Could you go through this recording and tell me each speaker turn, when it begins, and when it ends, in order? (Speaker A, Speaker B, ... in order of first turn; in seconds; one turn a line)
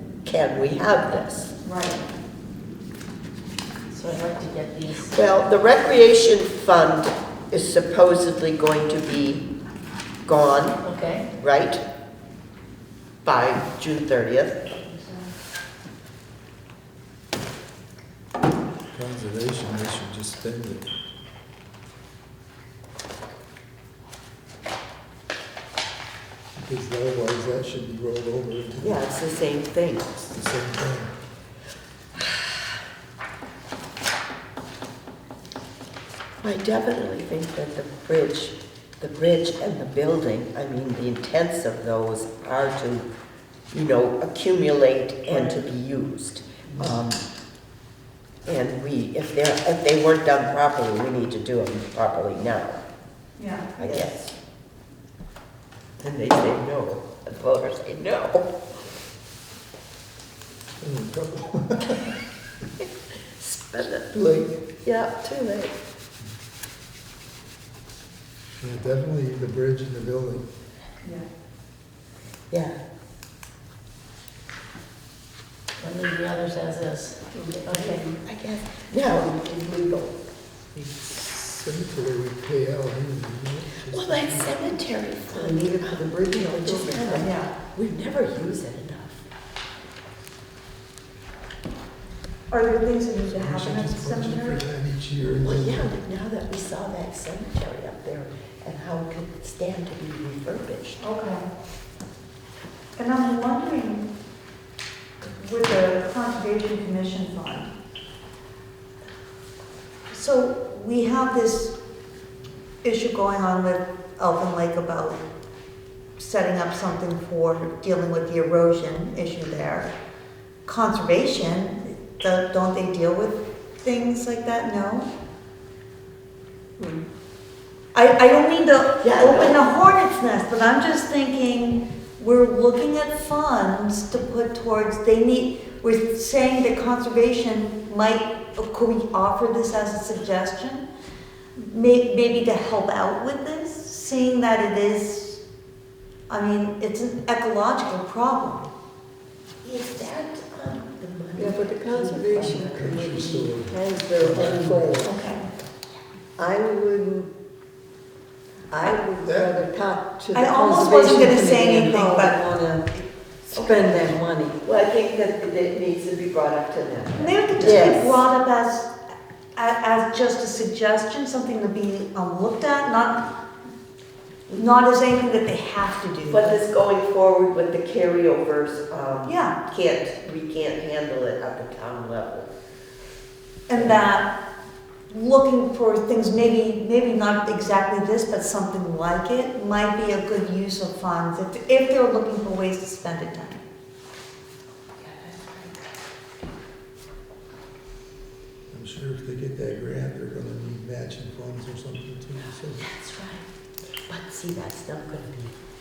Speaker A: 0.2-1.5
Speaker B: 1.6-2.0
Speaker C: 3.9-5.2
Speaker A: 5.1-9.4
Speaker A: 10.2-10.8
Speaker C: 10.8-11.3
Speaker A: 11.4-11.8
Speaker A: 13.2-14.7
Speaker B: 14.8-15.2
Speaker D: 18.9-20.9
Speaker D: 26.6-29.0
Speaker A: 28.8-30.3
Speaker D: 30.3-31.1
Speaker A: 36.4-43.1
Speaker A: 43.7-47.2
Speaker B: 45.3-45.6
Speaker A: 48.5-52.8
Speaker B: 53.4-54.1
Speaker A: 53.8-54.3
Speaker A: 56.0-58.5
Speaker D: 60.8-62.1
Speaker A: 62.8-64.1
Speaker D: 64.1-64.6
Speaker A: 64.8-65.7
Speaker D: 68.5-70.5
Speaker A: 72.5-72.8
Speaker C: 75.8-78.1
Speaker E: 77.3-78.2
Speaker A: 78.2-79.3
Speaker E: 78.9-80.2
Speaker D: 80.7-84.5
Speaker A: 83.9-89.2
Speaker E: 85.3-87.3
Speaker B: 87.2-87.5
Speaker B: 92.5-94.6
Speaker D: 93.3-96.0
Speaker A: 95.4-101.0
Speaker B: 101.0-101.4
Speaker B: 103.0-104.0
Speaker B: 105.2-107.7
Speaker B: 110.1-111.8
Speaker B: 112.8-115.2
Speaker B: 116.2-119.9
Speaker B: 120.7-125.1
Speaker E: 126.8-127.0
Speaker B: 127.9-140.8
Speaker A: 129.0-129.6
Speaker B: 141.6-145.4
Speaker B: 146.3-148.7
Speaker A: 149.6-153.0
Speaker E: 151.3-155.1
Speaker C: 152.3-152.7
Speaker D: 152.5-155.1
Speaker B: 155.0-155.4
Speaker E: 156.4-157.3
Speaker E: 158.7-163.0
Speaker D: 159.2-159.5
Speaker B: 160.3-162.4
Speaker A: 163.5-168.2
Speaker E: 163.5-164.6
Speaker B: 167.2-168.9
Speaker E: 167.6-168.1
Speaker B: 169.6-173.2
Speaker B: 174.5-176.6
Speaker A: 176.2-182.5
Speaker B: 179.2-179.6
Speaker B: 183.7-184.3
Speaker A: 183.7-184.1
Speaker B: 185.1-193.6
Speaker A: 195.0-195.9
Speaker D: 198.7-202.8
Speaker A: 202.4-203.4
Speaker A: 204.1-205.6